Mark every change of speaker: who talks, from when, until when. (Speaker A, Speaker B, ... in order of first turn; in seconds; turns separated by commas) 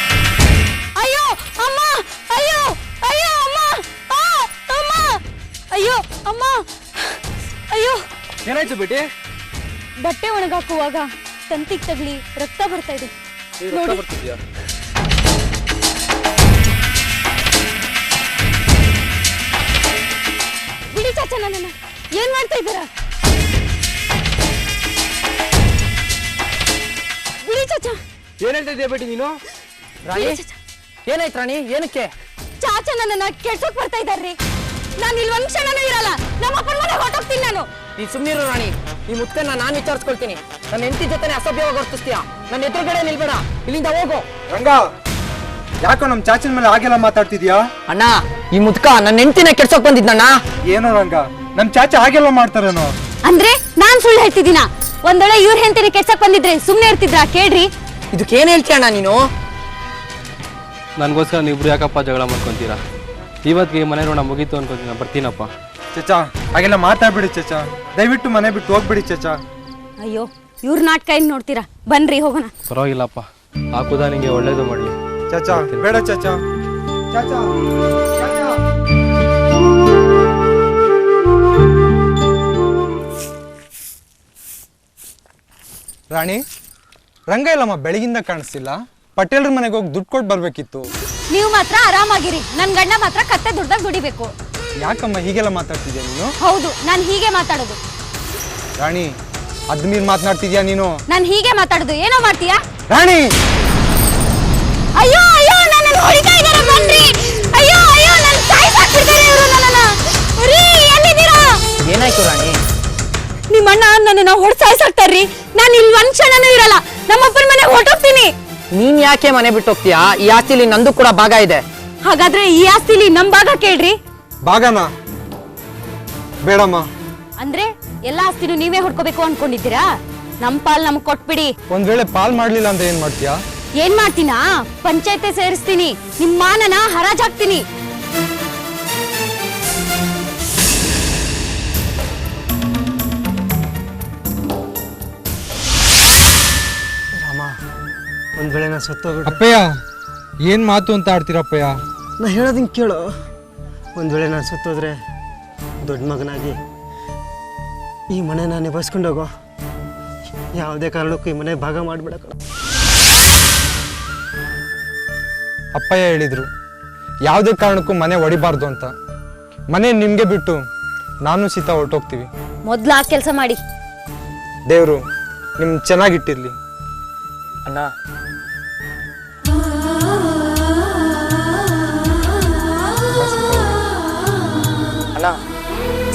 Speaker A: 1.0-6.6, Speaker A: 7.7-8.0, Speaker B: 8.4-9.0, Speaker A: 10.0-13.1, Speaker B: 13.6-14.4, Speaker A: 13.7-14.0, Speaker A: 20.9-22.9, Speaker A: 27.4-28.0, Speaker B: 28.4-29.4, Speaker C: 30.1-30.4, Speaker A: 30.1-30.5, Speaker C: 31.1-32.1, Speaker A: 32.6-34.4, Speaker A: 35.0-37.7, Speaker C: 38.0-44.2, Speaker D: 44.5-44.8, Speaker D: 45.8-47.6, Speaker C: 47.9-50.3, Speaker D: 50.7-52.9, Speaker A: 53.2-57.7, Speaker C: 58.1-59.2, Speaker B: 61.0-62.8, Speaker B: 63.5-65.5, Speaker D: 65.9-69.4, Speaker A: 70.0-72.5, Speaker B: 72.7-74.9, Speaker D: 75.3-76.4, Speaker B: 75.5-75.8, Speaker D: 77.1-77.5, Speaker D: 78.2-78.6, Speaker D: 86.1-86.4, Speaker D: 87.3-90.9, Speaker A: 91.3-94.3, Speaker D: 94.8-96.3, Speaker A: 96.4-97.8, Speaker D: 98.8-99.1, Speaker D: 99.7-100.9, Speaker A: 101.1-102.6, Speaker D: 102.9-103.3, Speaker A: 104.9-111.6, Speaker C: 111.8-112.6, Speaker A: 113.5-118.3, Speaker C: 118.7-121.6, Speaker A: 122.0-124.0, Speaker D: 124.5-124.9, Speaker D: 126.4-126.8, Speaker A: 127.4-129.8, Speaker A: 130.4-131.5, Speaker D: 131.7-133.4, Speaker A: 133.8-137.6, Speaker E: 147.2-147.5, Speaker E: 148.3-149.4, Speaker D: 149.2-149.6, Speaker D: 150.5-151.8, Speaker E: 152.2-153.0, Speaker E: 153.9-154.9, Speaker E: 155.8-156.5, Speaker E: 158.1-159.3, Speaker E: 160.5-162.3, Speaker D: 165.7-166.5, Speaker D: 167.2-168.9, Speaker D: 169.7-170.6, Speaker D: 171.2-172.3, Speaker A: 172.6-173.6, Speaker D: 174.7-175.0, Speaker D: 175.6-176.5, Speaker D: 183.2-183.8